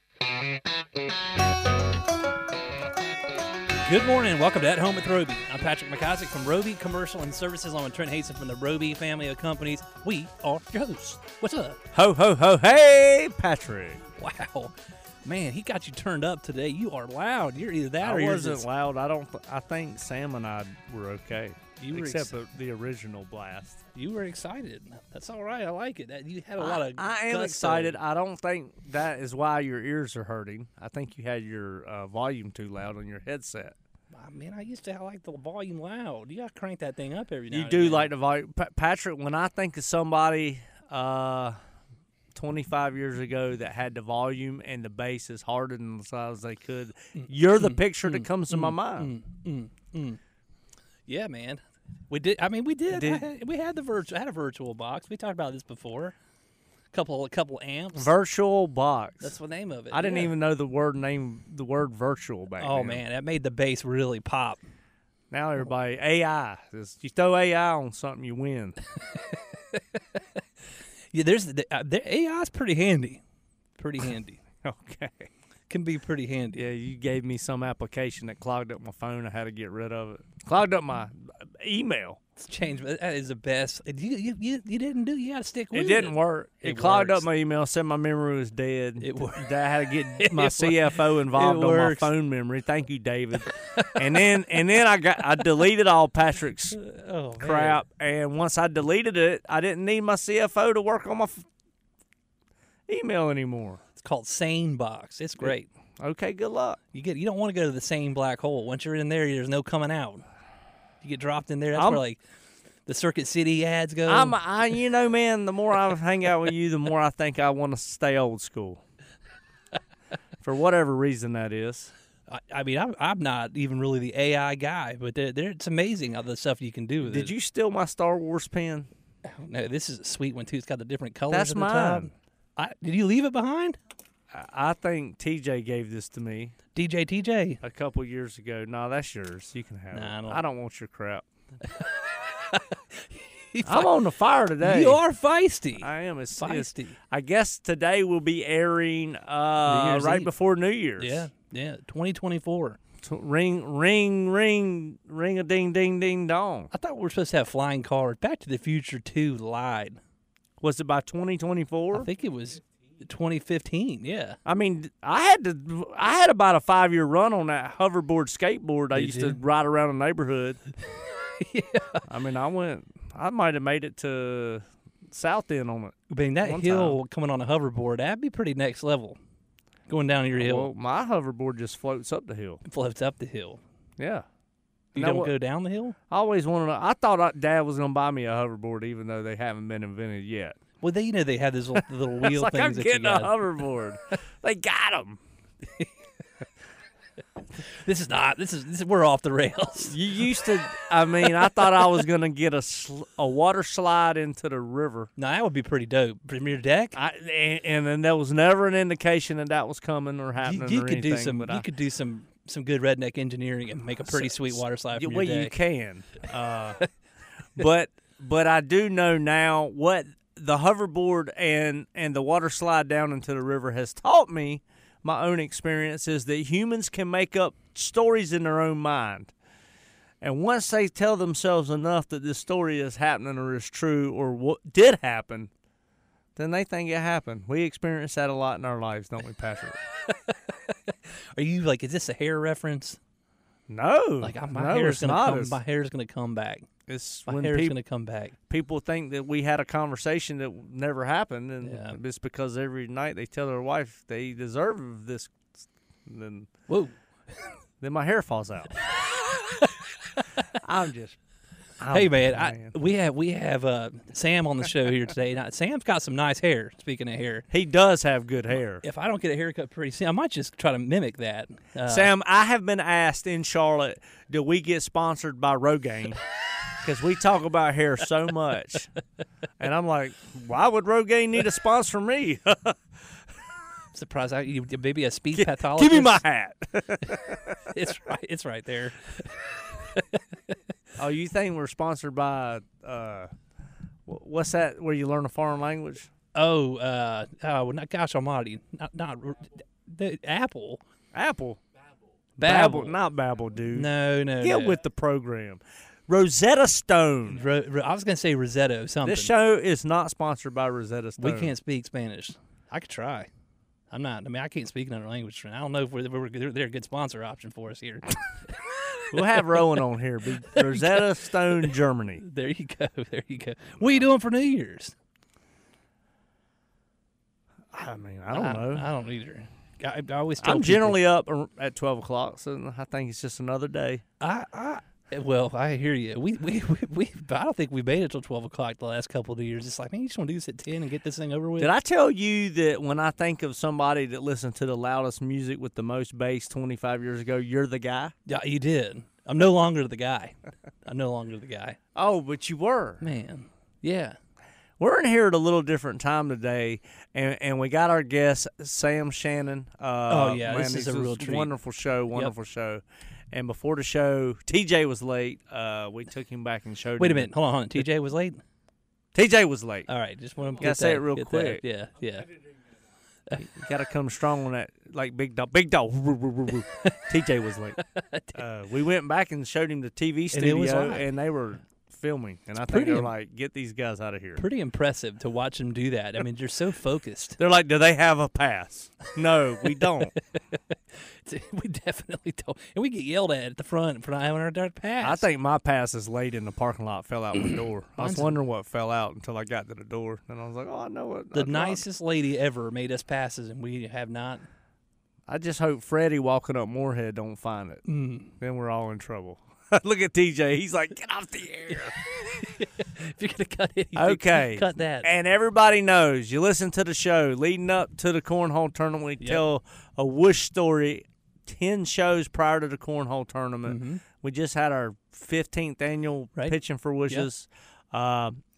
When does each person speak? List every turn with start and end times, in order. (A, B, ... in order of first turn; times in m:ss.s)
0:03.8-0:11.8 A
0:11.9-0:14.0 B
0:14.2-0:14.7 A
0:15.2-0:18.7 A
0:18.0-0:23.8 B
0:21.8-0:22.3 A
0:24.0-0:28.0 A
0:26.6-0:33.8 B
0:34.1-0:38.1 A
0:37.5-0:41.6 B
0:42.3-0:49.1 B
0:47.2-0:50.2 A
0:51.1-0:56.2 A
0:52.9-0:53.3 B
0:56.9-0:58.1 A
0:58.0-0:59.3 B
0:59.2-1:00.3 A
0:59.9-1:03.0 B
1:02.6-1:04.6 A
1:05.3-1:08.8 B
1:09.2-1:10.2 A
1:11.1-1:13.2 A
1:13.8-1:14.4 A
1:14.6-1:15.3 B
1:15.7-1:16.6 A
1:16.6-1:22.2 B
1:22.4-1:27.2 A
1:25.7-1:36.8 B
1:29.0-1:29.5 A
1:30.2-1:32.1 A
1:33.5-1:34.3 A
1:36.7-1:37.8 A
1:37.4-1:41.4 B
1:42.9-1:43.8 B
1:44.0-1:45.7 A
1:45.5-1:46.8 B
1:46.9-1:50.2 A
1:51.0-1:52.2 A
1:51.8-1:52.0 B
1:52.9-1:54.4 A
1:54.1-1:58.8 B
2:00.4-2:01.9 B
2:02.3-2:07.3 A
2:07.0-2:08.9 B
2:09.3-2:13.8 A
2:11.3-2:12.1 B
2:14.3-2:16.6 B
2:16.8-2:17.6 A
2:17.6-2:21.2 B
2:19.9-2:20.4 A
2:21.7-2:23.9 A
2:23.7-2:25.0 B
2:24.6-2:27.0 A
2:25.8-2:31.2 B
2:29.6-2:30.3 A
2:31.0-2:32.8 A
2:33.0-2:36.7 B
2:36.7-2:40.0 A
2:40.6-2:42.1 B
2:41.9-2:44.4 A
2:44.5-2:50.6 B
2:49.0-2:49.4 A
2:51.4-2:52.0 A
2:52.1-2:57.0 B
2:56.1-2:59.2 A
2:59.9-3:00.7 A
3:00.3-3:02.6 B
3:02.7-3:03.6 A
3:04.0-3:04.2 B
3:04.9-3:05.3 B
3:05.0-3:06.0 A
3:06.1-3:10.6 B
3:10.8-3:13.4 A
3:12.2-3:15.2 B
3:17.7-3:20.0 A
3:19.9-3:25.1 B
3:25.2-3:27.0 A
3:27.0-3:31.7 B
3:30.4-3:35.5 A
3:34.0-3:36.8 B
3:37.6-3:49.3 B
3:50.2-3:55.5 B
3:56.4-3:59.8 B
4:00.0-4:03.0 A
4:03.7-4:05.6 B
4:04.2-4:06.7 A
4:06.9-4:07.8 B
4:07.3-4:08.3 A
4:08.5-4:15.3 B
4:11.6-4:12.0 A
4:16.1-4:16.5 B
4:16.7-4:17.0 A
4:17.8-4:18.8 B
4:20.5-4:21.2 B
4:21.8-4:22.8 B
4:21.9-4:27.5 A
4:27.5-4:28.8 B
4:28.8-4:32.1 A
4:31.9-4:36.2 B
4:36.8-4:38.9 B
4:39.6-4:42.8 B
4:43.9-4:46.2 A
4:45.4-4:47.6 B
4:47.7-4:50.6 A
4:51.0-4:53.3 B
4:54.1-4:56.1 B
4:56.4-5:00.8 A
5:01.1-5:01.6 B
5:02.4-5:03.0 A
5:02.4-5:07.4 B
5:03.7-5:04.8 A
5:07.3-5:09.3 A
5:09.0-5:11.5 B
5:11.2-5:13.3 A
5:13.9-5:19.5 A
5:19.1-5:22.2 B
5:20.5-5:25.0 A
5:27.7-5:28.9 B
5:28.3-5:31.0 A
5:30.4-5:34.0 B
5:34.2-5:41.7 A
5:41.6-5:48.1 B
5:48.3-5:51.8 A
5:52.0-5:53.0 B
5:53.0-5:54.2 A
5:54.8-6:07.3 B
6:00.1-6:01.5 A
6:07.0-6:08.4 A
6:09.2-6:09.9 B
6:09.9-6:12.3 A
6:10.6-6:11.6 B
6:13.4-6:17.8 B
6:16.8-6:17.1 A
6:17.8-6:18.4 A
6:18.3-6:24.4 B
6:20.3-6:21.1 A
6:22.6-6:23.1 A
6:24.4-6:27.4 A
6:27.4-6:30.1 B
6:30.9-6:35.2 A
6:35.0-6:41.8 B
6:38.0-6:38.4 A
6:41.3-6:44.4 A
6:45.3-6:47.8 B
6:47.9-6:48.3 A
6:48.4-6:52.0 B
6:51.7-6:55.1 A
6:54.0-7:08.4 B
7:03.7-7:04.0 A